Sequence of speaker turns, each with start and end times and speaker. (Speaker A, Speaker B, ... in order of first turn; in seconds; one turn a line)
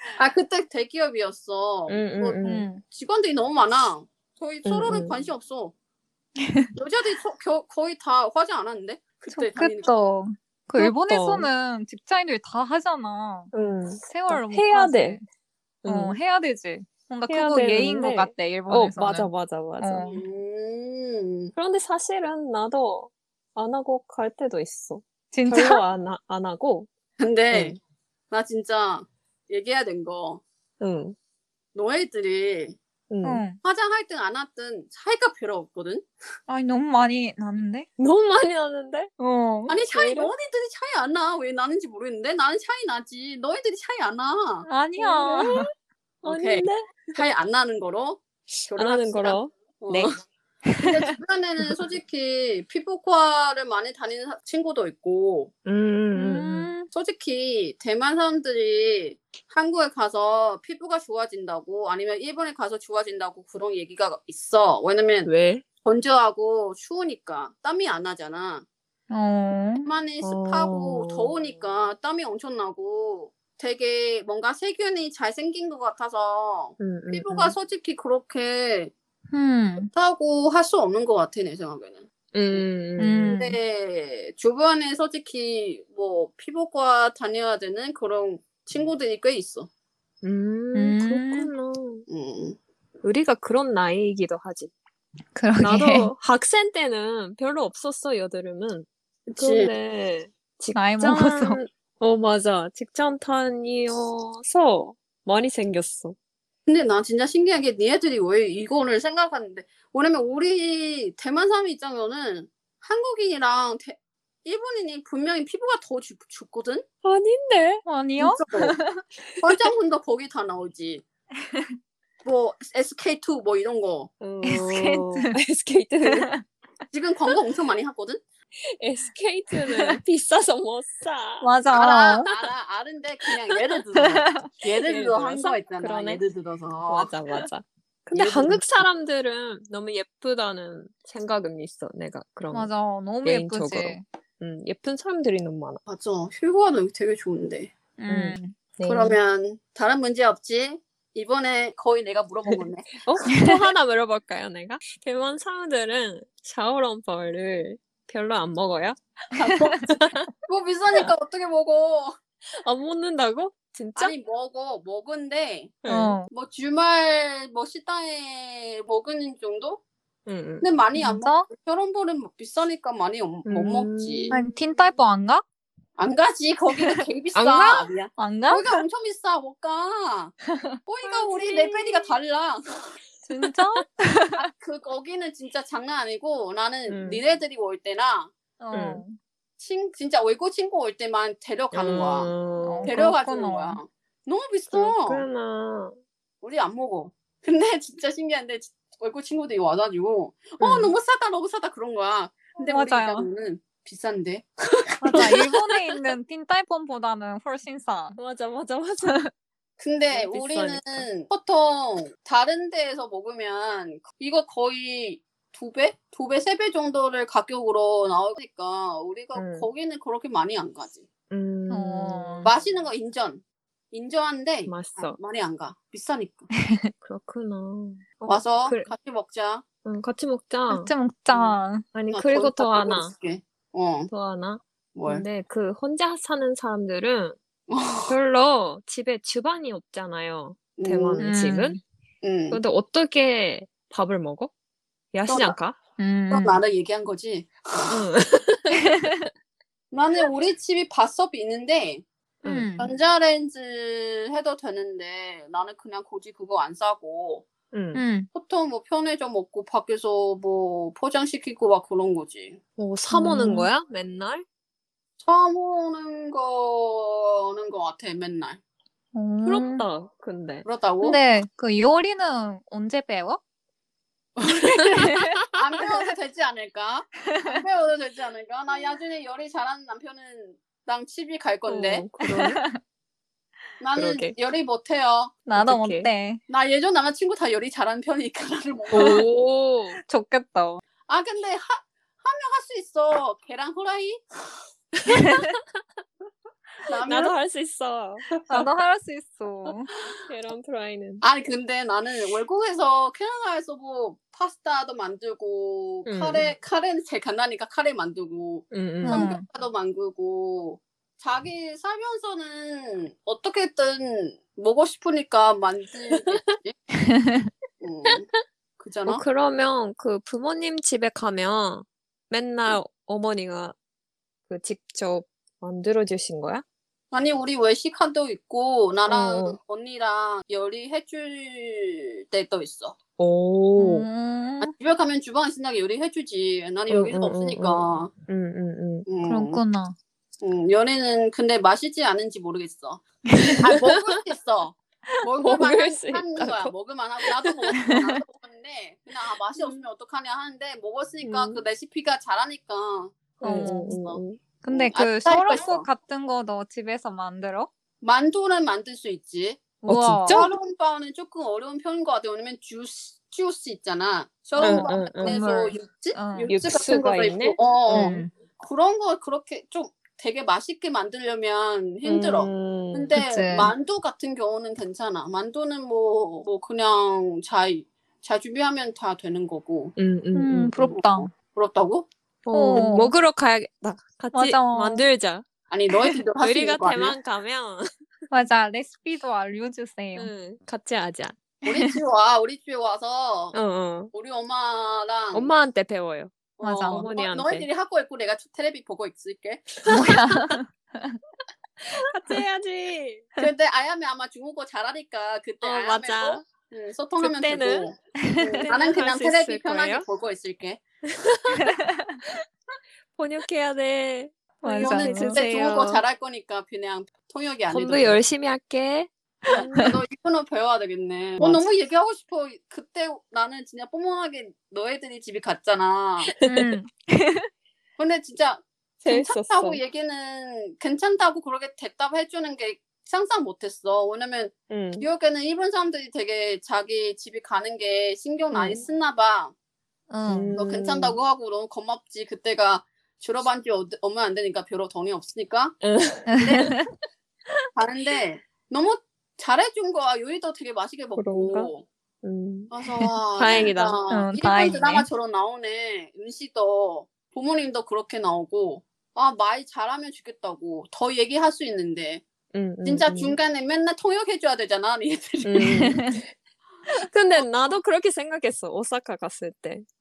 Speaker A: 0.1-5.7
Speaker B: 1.9-2.7
Speaker C: 2.4-2.8
Speaker B: 4.6-5.2
Speaker C: 6.4-6.7
Speaker A: 6.8-9.9
Speaker C: 9.3-13.5
Speaker B: 10.8-11.5
Speaker B: 13.5-15.2
Speaker C: 14.0-15.2
Speaker B: 15.8-16.2
Speaker C: 15.8-20.2
Speaker B: 17.3-20.1
Speaker A: 20.0-21.5
Speaker B: 21.5-26.9
Speaker C: 25.3-25.8
Speaker A: 27.2-27.8
Speaker A: 28.3-30.4
Speaker B: 30.8-31.1
Speaker A: 31.7-32.8
Speaker B: 33.1-33.4
Speaker C: 33.2-33.6
Speaker A: 33.6-36.1
Speaker C: 36.5-37.9
Speaker B: 38.0-39.1
Speaker C: 39.2-39.8
Speaker A: 39.7-44.7
Speaker B: 39.9-40.3
Speaker C: 44.6-45.7
Speaker B: 45.0-45.7
Speaker B: 46.2-47.2
Speaker A: 46.2-50.1
Speaker B: 48.7-49.5
Speaker C: 49.9-51.1
Speaker A: 50.8-55.5
Speaker B: 55.6-56.7
Speaker C: 56.1-56.9
Speaker A: 56.9-65.3
Speaker B: 65.2-65.6
Speaker A: 65.8-68.6
Speaker C: 69.1-69.9
Speaker A: 69.8-78.9
Speaker B: 70.2-71.3
Speaker B: 76.8-77.5
Speaker C: 79.3-79.9
Speaker A: 79.8-82.7
Speaker B: 82.3-83.3
Speaker C: 83.0-83.6
Speaker A: 83.3-89.7
Speaker B: 90.2-92.0
Speaker C: 90.7-91.5
Speaker A: 92.1-92.6
Speaker B: 93.0-94.7
Speaker C: 95.3-96.1
Speaker B: 95.6-106.2
Speaker A: 99.3-99.7
Speaker C: 100.7-101.6
Speaker A: 106.7-116.8
Speaker B: 117.0-117.8
Speaker C: 117.8-119.0
Speaker A: 118.2-118.8
Speaker A: 119.4-121.0
Speaker A: 122.2-124.1
Speaker B: 124.2-126.3
Speaker C: 124.4-125.3
Speaker C: 126.0-126.4
Speaker A: 126.9-128.2
Speaker B: 128.8-131.6
Speaker C: 129.6-130.0
Speaker C: 131.4-132.3
Speaker A: 131.7-137.2
Speaker C: 134.0-134.4
Speaker B: 134.8-136.2
Speaker B: 136.9-142.7
Speaker A: 138.1-138.8
Speaker C: 142.5-144.0
Speaker B: 143.2-145.8
Speaker A: 145.9-147.7
Speaker C: 148.0-148.6
Speaker B: 148.1-149.2
Speaker A: 148.8-153.0
Speaker B: 152.5-158.9
Speaker C: 153.2-153.6
Speaker A: 159.3-159.8
Speaker C: 159.4-159.7
Speaker B: 159.9-160.2
Speaker A: 160.4-162.1
Speaker B: 162.6-164.1
Speaker A: 163.9-169.8
Speaker B: 165.8-166.2
Speaker C: 165.9-166.3
Speaker B: 170.2-170.7
Speaker A: 170.6-174.4
Speaker C: 170.9-171.4
Speaker B: 173.4-174.4
Speaker C: 174.3-175.4
Speaker A: 176.0-180.3
Speaker C: 176.8-177.0
Speaker B: 177.3-177.9
Speaker C: 178.2-178.8
Speaker A: 180.9-182.9
Speaker B: 181.0-182.1
Speaker C: 183.2-184.4
Speaker A: 184.4-188.3
Speaker B: 186.9-187.2
Speaker C: 188.6-189.2
Speaker B: 188.7-189.0
Speaker A: 189.6-192.3
Speaker B: 191.7-193.0
Speaker C: 192.6-193.8
Speaker A: 192.8-195.2
Speaker B: 194.7-196.0
Speaker A: 196.4-205.7
Speaker B: 200.6-200.9
Speaker C: 202.6-203.3
Speaker C: 205.0-208.2
Speaker B: 208.1-209.2
Speaker A: 209.8-221.1
Speaker B: 210.1-211.1
Speaker B: 219.3-219.7
Speaker B: 221.3-222.4
Speaker C: 221.7-222.5
Speaker A: 222.4-226.5
Speaker B: 224.7-225.2
Speaker C: 226.6-226.9
Speaker B: 227.0-228.9
Speaker A: 228.2-229.7
Speaker B: 229.8-230.9
Speaker C: 230.7-231.9
Speaker A: 231.3-231.6
Speaker B: 231.9-233.1
Speaker A: 232.1-234.1
Speaker B: 234.1-237.4
Speaker A: 234.9-235.2
Speaker A: 237.7-238.2
Speaker B: 238.1-241.8
Speaker A: 240.8-241.3
Speaker C: 241.2-241.8
Speaker A: 242.2-242.6
Speaker B: 242.5-244.5
Speaker B: 245.1-245.8
Speaker A: 245.3-245.6
Speaker C: 246.0-246.6
Speaker A: 246.3-248.1
Speaker B: 247.9-248.8
Speaker A: 249.9-252.0
Speaker B: 252.4-252.7
Speaker C: 252.4-252.9
Speaker A: 252.8-257.5
Speaker B: 257.7-258.0
Speaker C: 257.9-258.3
Speaker A: 258.3-262.6
Speaker B: 262.8-264.4
Speaker C: 263.1-263.7
Speaker A: 265.2-268.6
Speaker C: 269.1-269.9
Speaker B: 269.4-270.6
Speaker A: 270.6-271.2
Speaker C: 271.0-273.4
Speaker A: 274.4-282.1
Speaker C: 275.0-275.4
Speaker C: 277.2-277.6
Speaker B: 281.7-282.6
Speaker C: 282.2-282.8
Speaker A: 283.8-285.4
Speaker B: 283.9-284.4
Speaker C: 285.5-286.4
Speaker B: 285.6-286.1
Speaker A: 286.5-289.2
Speaker B: 288.9-290.0
Speaker C: 288.9-289.2
Speaker C: 290.0-290.8
Speaker A: 291.1-294.6
Speaker B: 295.1-295.4
Speaker A: 296.8-297.4
Speaker B: 297.0-298.2
Speaker C: 298.5-299.9
Speaker B: 300.3-301.2
Speaker A: 301.2-316.8
Speaker B: 306.1-306.4
Speaker B: 308.7-309.3
Speaker C: 309.0-309.4
Speaker C: 317.0-317.5
Speaker A: 317.8-318.3
Speaker A: 318.8-319.2
Speaker B: 319.1-323.8
Speaker B: 324.5-326.6
Speaker A: 327.1-333.0
Speaker B: 329.1-329.6
Speaker B: 333.2-334.1
Speaker C: 333.8-334.7
Speaker A: 334.6-338.1
Speaker B: 336.9-339.1
Speaker A: 339.1-339.6
Speaker C: 339.2-339.9
Speaker A: 340.4-343.0
Speaker C: 343.3-343.7
Speaker A: 343.6-355.9
Speaker B: 345.4-346.7
Speaker B: 347.2-347.7
Speaker C: 347.7-348.2
Speaker B: 351.2-351.6
Speaker B: 353.4-354.4
Speaker C: 353.4-354.0
Speaker C: 354.6-357.7
Speaker A: 358.0-359.7
Speaker C: 359.8-360.5
Speaker B: 359.9-360.5
Speaker A: 360.3-379.9
Speaker C: 364.6-366.5
Speaker B: 364.6-365.5
Speaker B: 366.5-368.1
Speaker C: 367.9-368.3
Speaker B: 372.0-373.2
Speaker C: 373.1-373.7
Speaker B: 379.9-380.8
Speaker C: 380.3-381.3
Speaker A: 380.8-382.1
Speaker B: 382.4-385.4
Speaker C: 382.5-383.1
Speaker C: 384.3-385.1
Speaker A: 385.7-387.2
Speaker B: 386.4-387.8
Speaker C: 388.3-390.3
Speaker B: 390.1-391.4
Speaker A: 391.6-393.6
Speaker C: 391.7-392.0
Speaker B: 393.5-394.1
Speaker A: 394.1-395.5
Speaker B: 395.3-396.3
Speaker A: 396.6-399.8
Speaker C: 396.6-397.1
Speaker B: 396.9-397.7
Speaker B: 399.9-400.5
Speaker C: 399.9-401.2
Speaker B: 401.9-403.3
Speaker A: 403.4-410.8
Speaker B: 405.6-406.4
Speaker B: 407.2-407.9
Speaker C: 408.2-408.7
Speaker B: 408.6-410.1
Speaker B: 411.2-411.6
Speaker C: 411.6-412.1
Speaker B: 413.1-416.0
Speaker C: 414.6-415.4
Speaker A: 414.8-418.2
Speaker B: 417.7-419.9
Speaker A: 419.4-426.3
Speaker C: 419.5-419.9
Speaker B: 421.4-421.6
Speaker B: 426.2-426.8
Speaker C: 426.4-427.5
Speaker A: 428.0-439.5
Speaker B: 429.0-429.8
Speaker B: 434.7-435.1
Speaker B: 438.5-438.8
Speaker C: 440.1-440.6
Speaker B: 440.3-441.1
Speaker A: 440.5-445.8
Speaker B: 445.8-446.3
Speaker C: 446.3-446.9
Speaker A: 446.4-446.7
Speaker A: 447.8-451.9
Speaker B: 451.1-451.7
Speaker B: 452.2-452.7
Speaker A: 452.7-462.2
Speaker B: 453.4-454.0
Speaker C: 454.1-455.1
Speaker B: 462.5-463.4
Speaker A: 462.8-465.9
Speaker B: 465.4-466.3
Speaker C: 465.7-466.2
Speaker A: 466.9-467.8
Speaker B: 466.9-469.8